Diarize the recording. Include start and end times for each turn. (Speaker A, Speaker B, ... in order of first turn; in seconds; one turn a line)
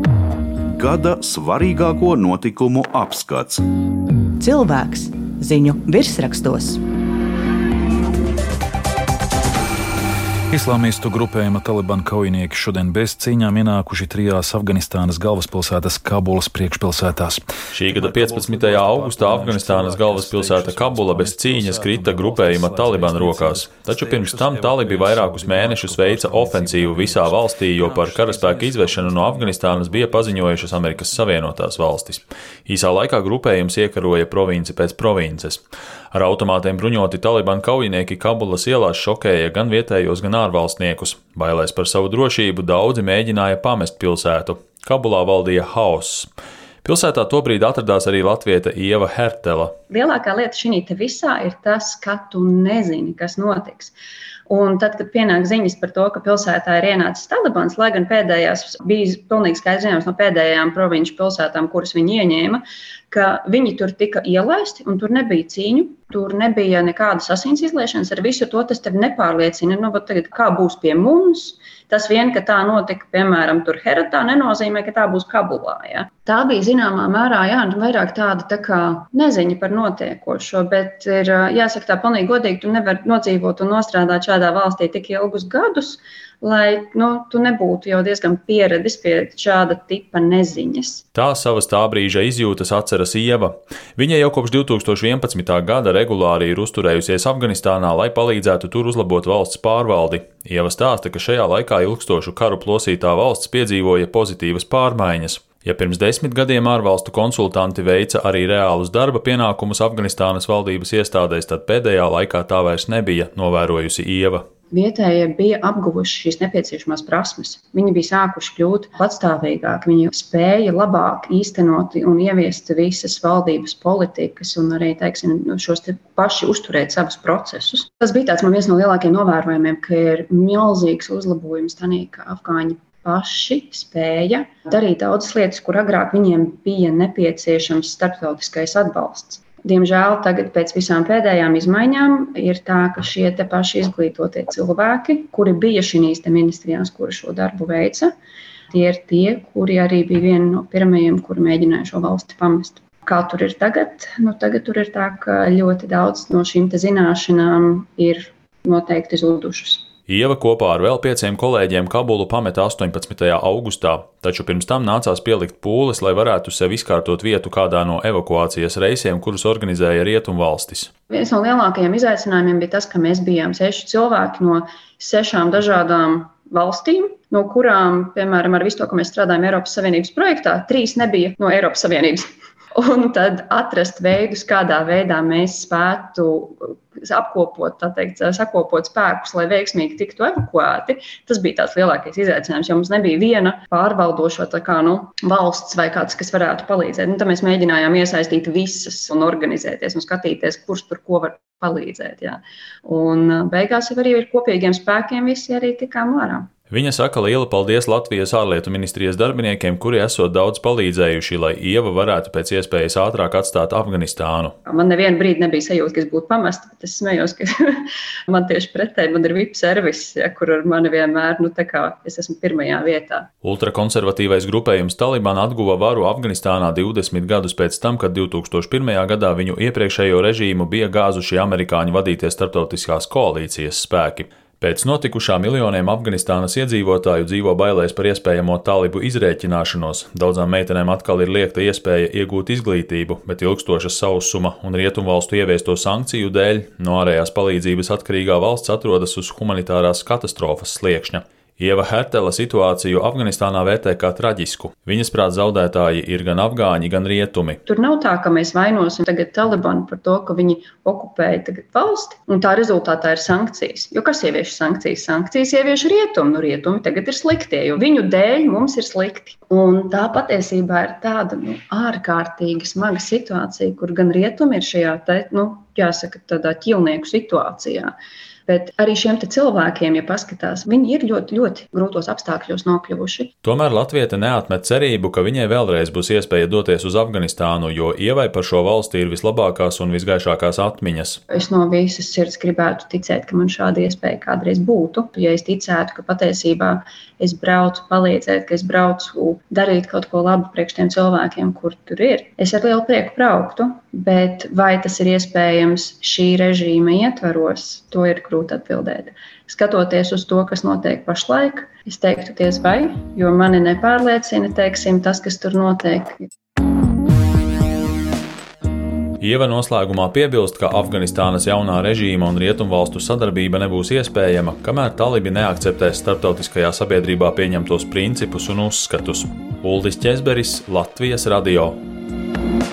Speaker A: 0.7-3.6
Speaker B: 4.4-6.8
Speaker C: 10.5-31.4
Speaker D: 17.7-35.6
Speaker D: 36.1-46.3
Speaker D: 46.8-49.8
Speaker E: 49.9-53.9
Speaker E: 54.5-91.0
Speaker D: 91.1-114.4
Speaker E: 114.7-148.1
Speaker E: 148.7-159.9
Speaker D: 160.1-170.9
Speaker E: 171.1-206.5
Speaker D: 206.7-214.5
Speaker E: 214.7-223.3
Speaker D: 223.4-257.6
Speaker E: 257.6-277.9
Speaker E: 278.5-283.3
Speaker D: 283.4-291.2
Speaker E: 291.3-316.2
Speaker D: 319.2-331.8